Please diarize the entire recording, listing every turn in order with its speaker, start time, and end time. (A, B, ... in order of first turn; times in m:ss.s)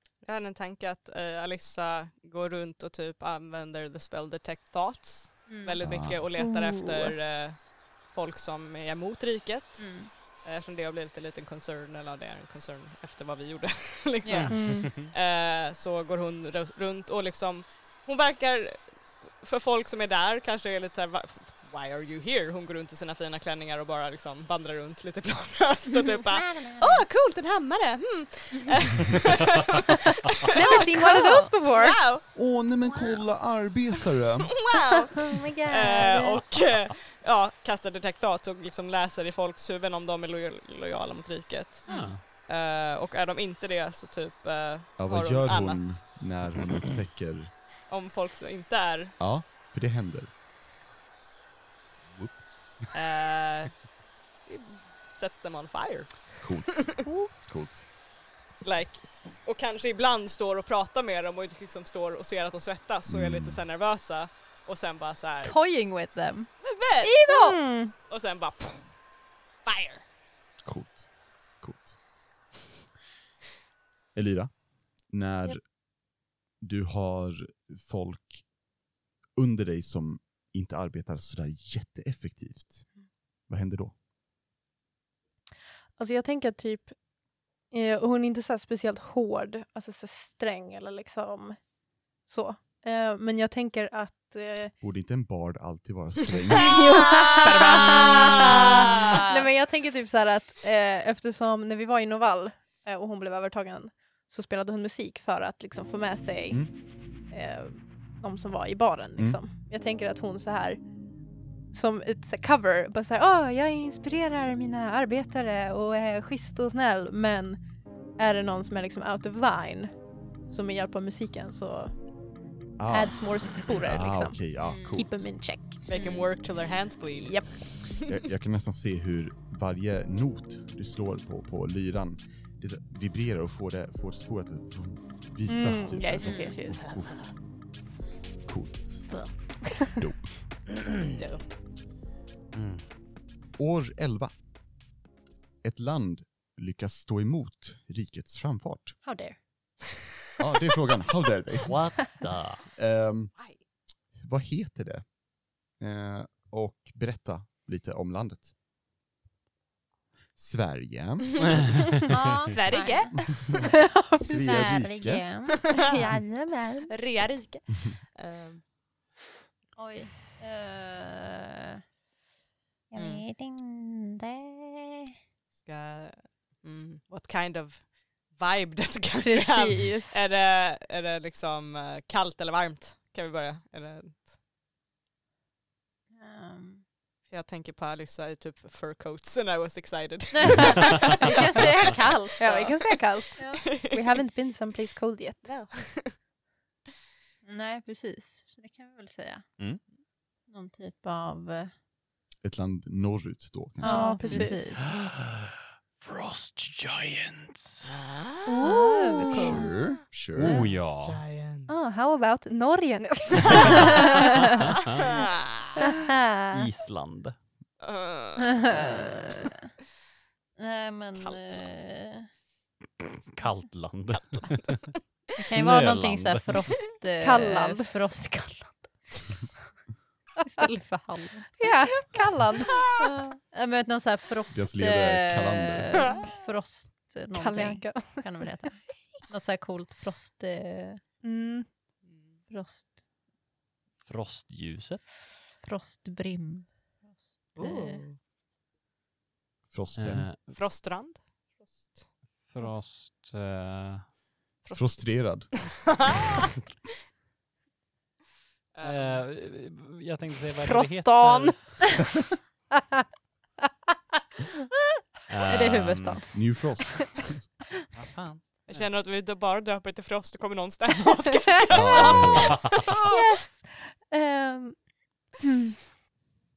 0:00.2-0:32.2 A
0:05.5-0:05.8 B
0:05.8-0:06.2 C
0:06.4-0:07.1 D
0:09.8-0:10.1 B
0:14.2-0:14.7 B
0:14.3-0:15.1 E
0:14.5-0:15.1 D
0:26.3-0:27.0 B
0:30.5-0:31.5 B
0:30.5-0:32.0 D
0:32.3-0:34.5 C
0:34.4-0:46.0 A
0:35.3-0:36.4 D
0:35.4-0:36.4 B
0:41.9-0:42.2 B
0:41.9-0:42.2 E
0:45.0-0:47.5 C
0:47.9-0:49.1 A
0:49.2-0:50.3 C
0:52.2-0:52.6 C
0:52.9-0:53.8 A
0:54.4-0:57.1 A
0:56.4-0:57.8 C
0:58.6-1:05.6 A
1:03.1-1:03.6 C
1:05.4-1:06.5 B
1:06.6-1:07.2 A
1:07.0-1:07.6 B
1:07.3-1:07.9 D
1:08.1-1:08.9 A
1:09.6-1:10.0 A
1:10.6-1:11.1 C
1:11.6-1:12.0 C
1:14.1-1:14.5 C
1:15.1-1:15.6 C
1:16.6-1:18.4 C
1:19.4-1:22.8 C
1:23.5-1:23.9 C
1:26.0-1:26.9 D
1:27.7-1:31.6 D
1:32.2-1:34.7 D
1:34.8-1:36.8 C
1:36.5-1:46.7 D
1:37.2-1:39.3 A
1:37.7-1:38.4 E
1:47.3-1:50.8 D
1:51.7-1:57.6 D
1:58.2-1:59.9 D
2:00.5-2:01.9 D
2:02.8-2:05.3 C
2:02.9-2:06.1 D
2:04.6-2:05.0 B
2:05.8-2:08.1 A
2:05.9-2:06.3 B
2:07.2-2:07.5 D
2:08.1-2:17.3 C
2:15.4-2:16.8 D
2:16.2-2:16.5 B
2:18.4-2:19.1 C
2:19.8-2:20.3 C
2:21.2-2:21.4 A
2:22.5-2:22.8 E
2:23.6-2:24.3 C
2:25.6-2:29.0 C
2:29.0-2:29.4 B
2:30.4-2:32.1 C
2:31.7-2:32.7 E
2:32.8-2:33.3 C
2:34.2-2:35.0 C
2:35.8-2:38.5 C
2:40.4-2:41.5 C
2:42.1-2:43.3 B
2:42.5-2:43.6 A
2:43.5-2:44.8 D
2:44.1-2:45.2 C
2:44.3-2:46.9 B
2:45.6-2:46.0 A
2:46.9-2:48.6 A
2:49.8-2:51.8 B
2:52.9-2:55.1 B
2:52.9-2:53.2 A
2:55.6-3:04.3 A
2:59.2-3:00.2 D
3:06.2-3:06.8 B
3:07.3-3:14.0 A
3:10.3-3:12.5 B
3:12.4-3:15.5 D
3:13.4-3:13.7 B
3:15.4-3:16.2 A
3:17.4-3:19.4 B
3:20.5-3:21.7 B
3:22.4-3:24.1 C
3:23.8-3:25.0 B
3:23.8-3:24.9 D
3:24.2-3:24.5 A
3:24.8-3:27.9 E
3:27.9-3:28.6 A
3:28.5-3:29.7 D
3:28.6-3:29.7 B
3:29.3-3:30.6 C
3:30.4-3:31.2 E
3:30.5-3:31.7 A
3:31.7-3:34.8 D
3:33.4-3:33.8 A
3:34.8-3:35.8 A
3:35.8-3:36.1 D
3:36.5-3:37.4 E
3:37.8-3:39.0 A
3:38.5-3:39.6 B
3:40.6-3:42.3 B
3:41.2-3:41.6 A
3:43.3-3:44.9 E
3:45.4-3:49.2 B
3:45.5-3:46.6 E
3:47.2-3:47.9 D
3:50.4-3:52.1 B
3:51.6-3:52.8 D
3:52.7-3:53.1 A
3:53.0-4:01.0 B
3:54.5-3:56.1 C
3:57.4-3:58.2 D
4:01.2-4:01.7 D
4:02.1-4:02.3 A
4:02.5-4:02.9 B
4:04.0-4:05.2 E
4:05.6-4:06.7 B
4:07.5-4:08.0 B
4:07.6-4:08.2 A
4:09.7-4:10.3 C
4:10.0-4:10.5 E
4:10.5-4:12.0 A
4:12.5-4:14.1 E
4:14.6-4:16.5 A
4:14.7-4:15.5 C
4:18.7-4:19.2 A
4:18.8-4:22.0 E
4:20.6-4:22.1 D
4:25.3-4:26.2 E
4:25.5-4:26.4 B
4:26.3-4:27.4 C
4:27.9-4:28.9 E
4:28.6-4:33.2 A
4:31.7-4:32.7 C
4:33.0-4:34.8 D
4:33.1-4:33.4 B
4:35.4-4:35.7 D